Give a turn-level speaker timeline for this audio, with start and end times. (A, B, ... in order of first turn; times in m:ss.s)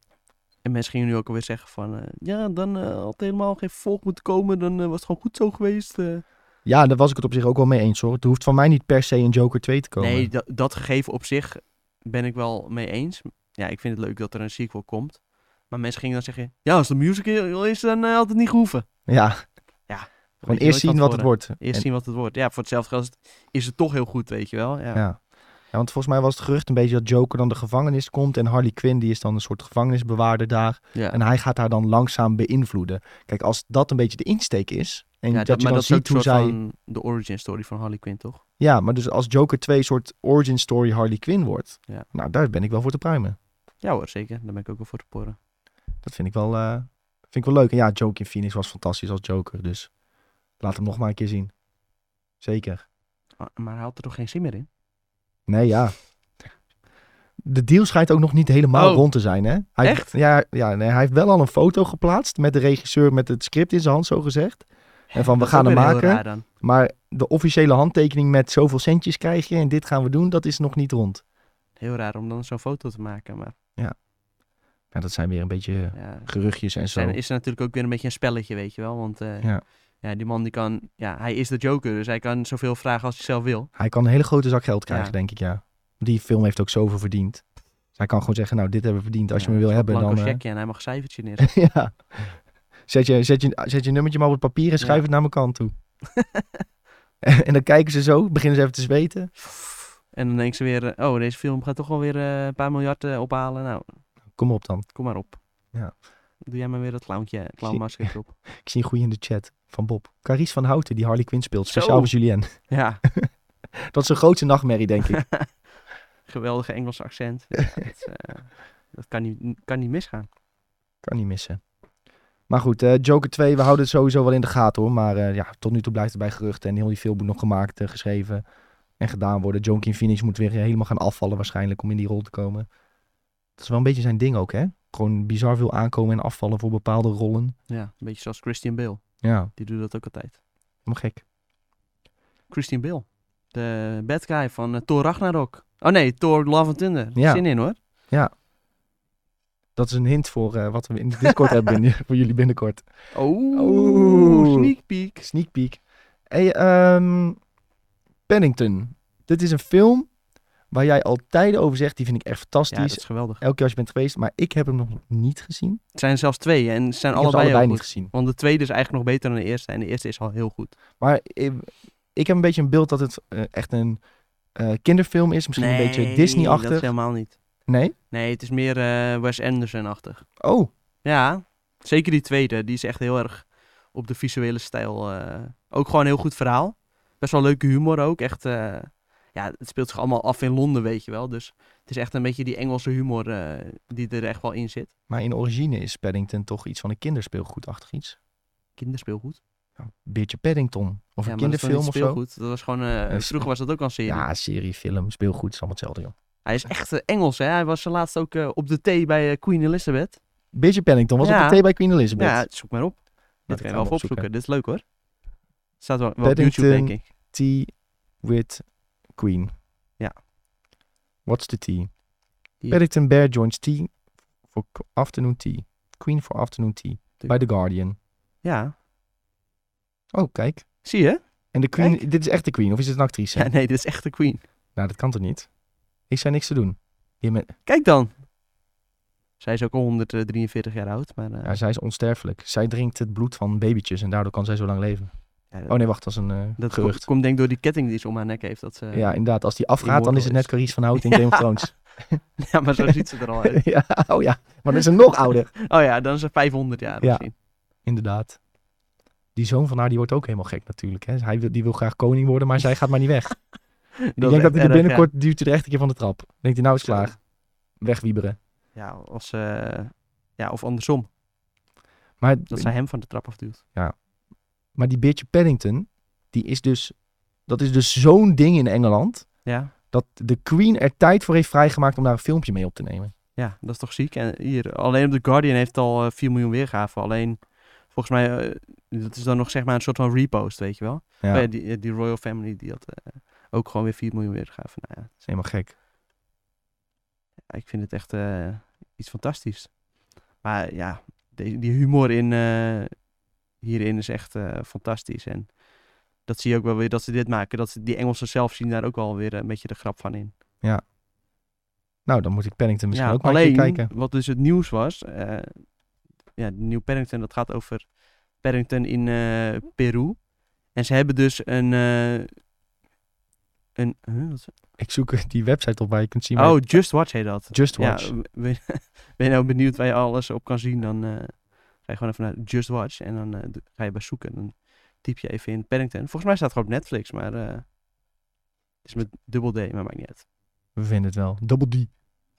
0:00.6-0:06.2 A
0:06.6-0:10.3 B
0:10.0-0:18.9 A
0:19.1-0:19.4 B
0:19.9-0:25.0 A
0:20.4-0:21.8 B
0:24.9-0:25.2 B
0:25.7-0:36.6 B
0:35.3-0:38.4 A
0:38.6-0:43.4 B
0:43.8-0:45.4 A
0:46.0-0:49.9 B
0:50.6-0:51.5 B
0:52.4-0:52.8 B
0:53.4-0:54.7 A
0:55.5-0:56.0 B
0:57.4-1:11.2 B
0:58.7-0:59.0 A
0:59.8-1:00.1 A
1:05.1-1:06.4 A
1:11.8-1:13.6 A
1:14.9-1:17.2 B
1:15.9-1:16.3 A
1:16.9-1:19.5 A
1:20.0-1:23.7 A
1:23.8-1:27.4 B
1:24.9-1:25.1 A
1:28.0-1:30.4 B
1:29.4-1:31.5 A
1:31.4-1:32.4 B
1:32.9-1:35.7 B
1:36.1-1:36.6 A
1:37.2-1:39.3 B
1:40.1-1:44.0 A
1:44.3-1:44.8 B
1:44.9-1:45.4 A
1:46.4-1:48.4 A
1:47.6-1:55.2 B
1:51.7-1:52.1 A
1:52.7-1:53.0 A
1:55.1-1:55.6 A
1:56.3-2:00.3 A
2:01.0-2:01.6 B
2:02.5-2:08.4 B
2:09.0-2:12.7 B
2:13.6-2:17.6 B
2:17.7-2:19.0 A
2:19.2-2:19.5 B
2:19.6-2:20.4 A
2:20.9-2:21.2 B
2:22.5-2:27.8 A
2:27.2-2:27.4 B
2:29.8-2:32.9 B
2:33.1-2:35.3 A
2:33.5-2:37.4 B
2:38.3-2:40.1 B
2:40.7-2:45.8 B
2:42.7-2:43.4 A
2:45.9-2:50.8 A
2:47.1-2:48.1 B
2:51.0-2:54.0 B
2:54.6-2:56.9 B
2:55.6-2:57.4 A
2:57.7-2:57.9 B
2:58.1-3:00.3 A
3:00.4-3:00.7 B
3:01.0-3:14.9 A
3:15.1-3:18.2 B
3:18.8-3:19.4 A
3:19.8-3:22.2 B
3:21.3-3:24.2 A
3:23.1-3:23.5 B
3:24.0-3:26.1 B
3:26.4-3:30.2 A
3:30.5-3:32.5 B
3:31.2-3:31.6 A
3:32.1-3:34.8 A
3:33.5-3:34.3 B
3:35.8-3:37.0 A
3:36.2-3:39.5 B
3:41.3-3:41.9 B
3:42.7-3:43.9 B
3:44.5-3:48.0 B
3:48.4-3:48.7 A
3:50.1-3:50.6 B
3:50.8-3:51.2 A
3:51.5-3:53.5 B
3:51.8-3:52.0 A
3:53.3-3:54.4 A
3:54.8-3:55.5 B
3:56.1-3:57.5 B
3:57.6-3:58.2 A
3:59.4-4:01.6 A
4:01.4-4:05.1 B
4:05.5-4:05.8 A
4:05.7-4:07.0 B
4:06.6-4:09.1 A
4:08.9-4:12.2 B
4:09.8-4:11.7 A
4:12.4-4:13.6 A
4:12.8-4:15.5 B
4:15.6-4:17.3 A
4:17.8-4:18.4 B
4:19.3-4:23.4 B
4:24.1-4:25.1 A
4:24.2-4:27.2 B
4:26.8-4:27.1 A
4:27.8-4:28.4 B
4:28.7-4:31.1 A
4:32.2-4:32.7 B
4:32.5-4:33.6 A
4:34.7-4:37.0 B
4:37.5-4:39.3 B
4:39.4-4:39.7 A
4:39.9-4:43.1 B
4:43.4-4:55.1 A
4:51.2-4:51.5 B
4:55.2-4:55.7 B
4:57.5-4:59.7 A
5:00.4-5:03.0 A
5:03.6-5:05.6 A
5:06.2-5:10.3 A
5:12.0-5:13.9 B
5:12.9-5:15.7 A
5:16.4-5:20.2 A
5:20.7-5:22.3 A
5:23.8-5:24.5 A
5:24.8-5:26.9 B
5:26.3-5:37.6 A
5:27.5-5:28.1 B
5:38.8-5:40.2 A
5:40.8-5:41.9 B